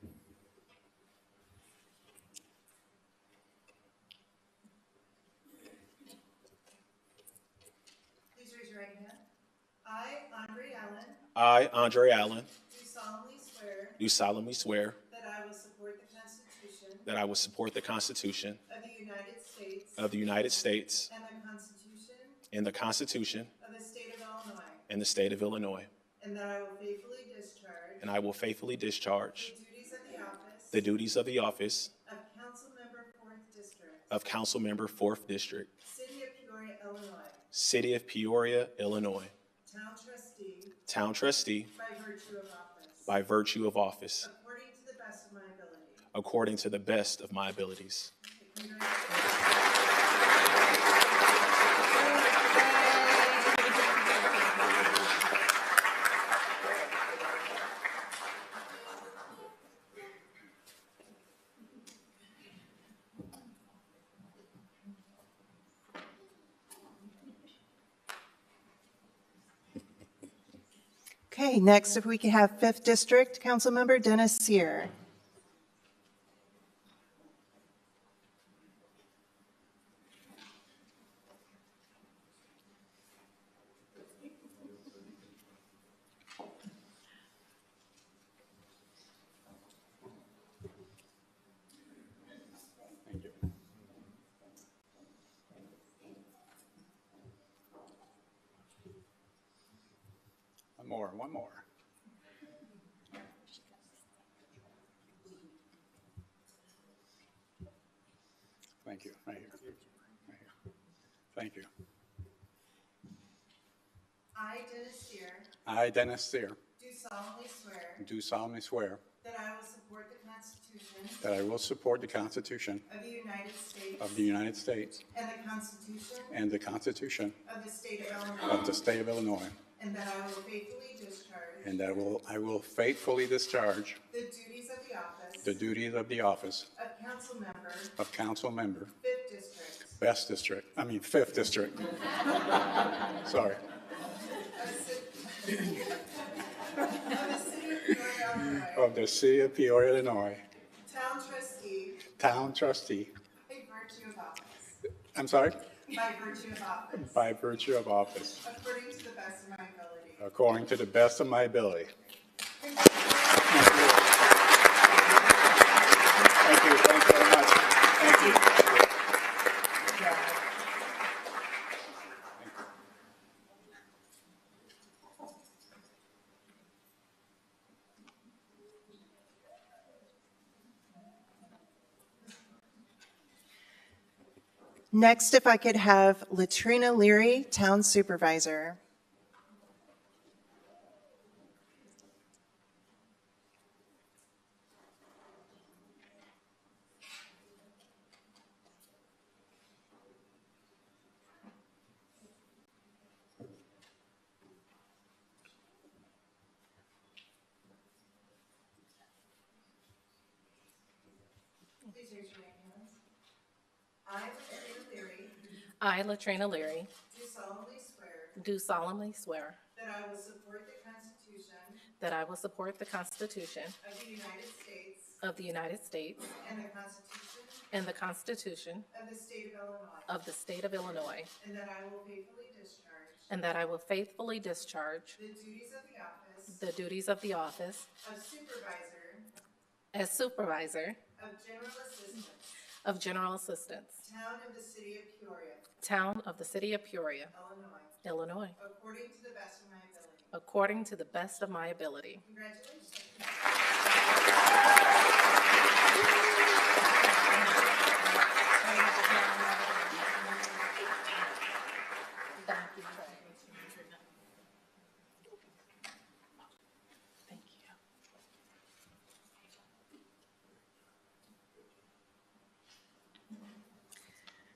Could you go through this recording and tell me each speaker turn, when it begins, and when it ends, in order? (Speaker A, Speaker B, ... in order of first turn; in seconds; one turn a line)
Speaker A: 8.3-9.2
Speaker A: 9.8-11.2
Speaker B: 11.3-12.5
Speaker A: 12.7-14.0
Speaker B: 14.0-15.0
Speaker A: 15.1-17.1
Speaker B: 17.1-18.6
Speaker A: 18.7-20.1
Speaker B: 20.0-21.1
Speaker A: 21.1-22.4
Speaker B: 22.5-23.5
Speaker A: 23.6-24.9
Speaker B: 24.9-25.9
Speaker A: 26.2-28.1
Speaker B: 28.0-29.5
Speaker A: 29.4-30.8
Speaker B: 30.7-31.9
Speaker A: 32.0-34.1
Speaker B: 34.1-35.7
Speaker A: 35.8-37.5
Speaker B: 37.5-39.3
Speaker A: 39.6-40.8
Speaker B: 40.9-41.7
Speaker A: 41.7-43.1
Speaker B: 43.0-44.3
Speaker A: 44.2-46.1
Speaker B: 46.1-48.1
Speaker A: 48.2-49.6
Speaker A: 51.8-53.7
Speaker A: 71.3-74.9
Speaker C: 93.0-93.3
Speaker C: 100.8-101.6
Speaker C: 108.8-109.7
Speaker C: 111.3-111.7
Speaker A: 114.3-115.5
Speaker C: 115.7-116.6
Speaker A: 116.8-118.0
Speaker C: 118.0-119.0
Speaker A: 119.2-121.2
Speaker C: 121.2-122.8
Speaker A: 122.9-124.2
Speaker C: 124.0-125.0
Speaker A: 125.1-126.4
Speaker C: 126.3-127.3
Speaker A: 127.4-128.7
Speaker C: 128.4-129.6
Speaker A: 129.8-131.7
Speaker C: 131.6-134.0
Speaker A: 134.1-135.5
Speaker C: 135.4-136.7
Speaker A: 136.7-137.9
Speaker C: 138.0-138.9
Speaker A: 139.0-140.0
Speaker C: 140.0-142.1
Speaker C: 143.2-143.6
Speaker A: 144.6-148.9
Speaker C: 148.7-150.4
Speaker A: 150.8-152.0
Speaker C: 152.1-153.1
Speaker A: 153.5-154.8
Speaker C: 155.1-155.6
Speaker A: 155.9-157.2
Speaker C: 157.0-158.4
Speaker A: 158.4-160.2
Speaker C: 160.2-161.9
Speaker C: 163.5-164.1
Speaker C: 166.3-168.9
Speaker A: 184.9-188.8
Speaker A: 211.9-213.0
Speaker A: 214.0-215.4
Speaker D: 215.8-216.9
Speaker A: 217.1-218.4
Speaker D: 218.3-219.6
Speaker A: 219.7-221.8
Speaker D: 222.0-223.8
Speaker A: 223.8-225.2
Speaker D: 225.2-226.3
Speaker A: 226.4-227.7
Speaker D: 227.7-228.9
Speaker A: 228.9-230.1
Speaker D: 230.1-231.3
Speaker A: 231.4-233.3
Speaker D: 233.3-235.2
Speaker A: 235.2-236.6
Speaker D: 236.5-237.9
Speaker A: 238.0-239.3
Speaker D: 239.9-241.0
Speaker A: 241.2-242.5
Speaker D: 242.8-244.0
Speaker A: 244.0-245.6
Speaker D: 245.8-247.3
Speaker A: 247.3-248.0
Speaker D: 248.0-248.5
Speaker A: 248.6-250.3
Speaker D: 250.3-252.2
Speaker A: 252.2-253.3
Speaker D: 257.3-257.6
Speaker D: 258.6-260.3
Speaker D: 262.4-263.4
Speaker D: 267.3-267.7